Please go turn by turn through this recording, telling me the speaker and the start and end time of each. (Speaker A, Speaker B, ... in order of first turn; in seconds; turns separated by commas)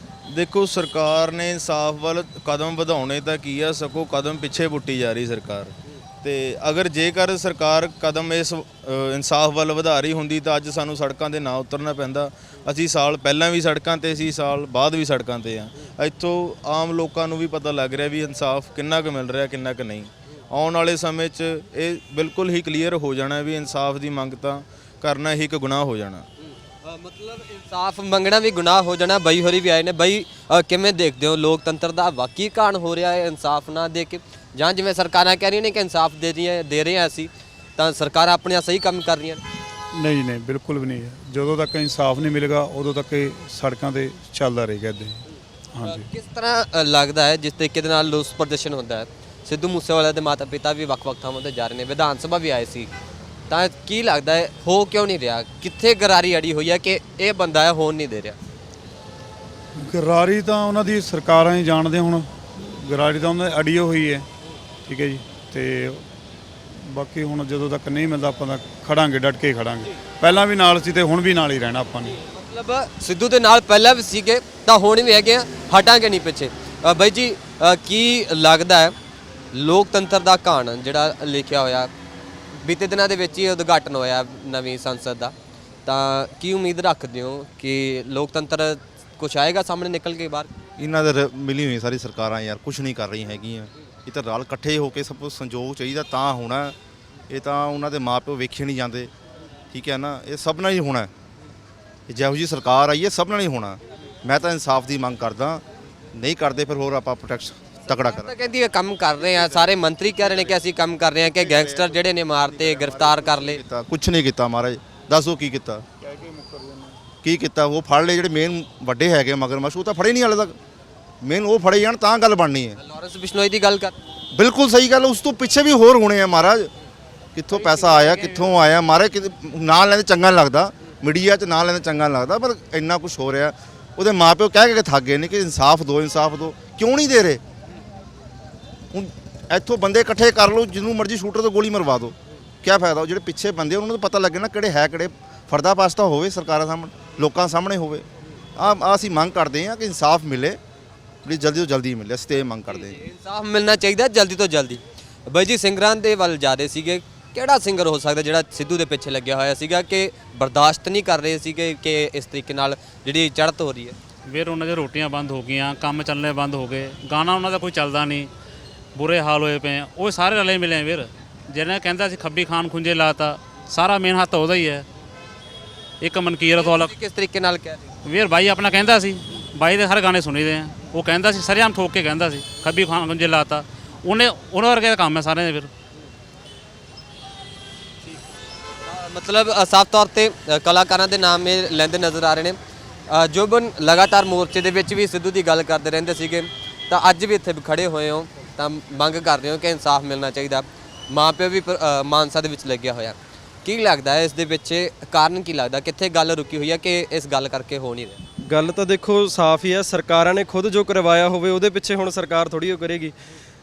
Speaker A: 0.3-26.3, Speaker B: 26.8-39.4, Speaker C: 40.0-45.0, Speaker B: 45.8-52.9, Speaker B: 53.5-58.4, Speaker C: 59.9-62.2, Speaker C: 62.9-64.2, Speaker C: 64.9-66.0, Speaker C: 66.9-69.7, Speaker C: 70.3-72.0, Speaker B: 72.2-78.9, Speaker B: 79.5-81.9, Speaker B: 82.6-85.3, Speaker B: 85.9-90.5, Speaker D: 90.8-96.8, Speaker D: 97.3-99.1, Speaker D: 99.7-101.1, Speaker D: 102.1-105.6, Speaker D: 106.1-108.3, Speaker B: 107.9-113.6, Speaker D: 111.3-115.8, Speaker D: 117.2-120.5, Speaker D: 121.2-122.8, Speaker B: 122.8-123.9, Speaker D: 124.3-126.7, Speaker D: 127.3-137.4, Speaker D: 138.9-148.0, Speaker D: 148.6-150.6, Speaker D: 151.2-153.0, Speaker B: 152.7-164.0, Speaker E: 164.3-168.3, Speaker E: 169.0-174.8, Speaker E: 176.0-176.8, Speaker B: 176.5-177.9, Speaker E: 178.0-185.7, Speaker B: 188.9-192.6, Speaker B: 193.1-208.2, Speaker F: 208.4-213.2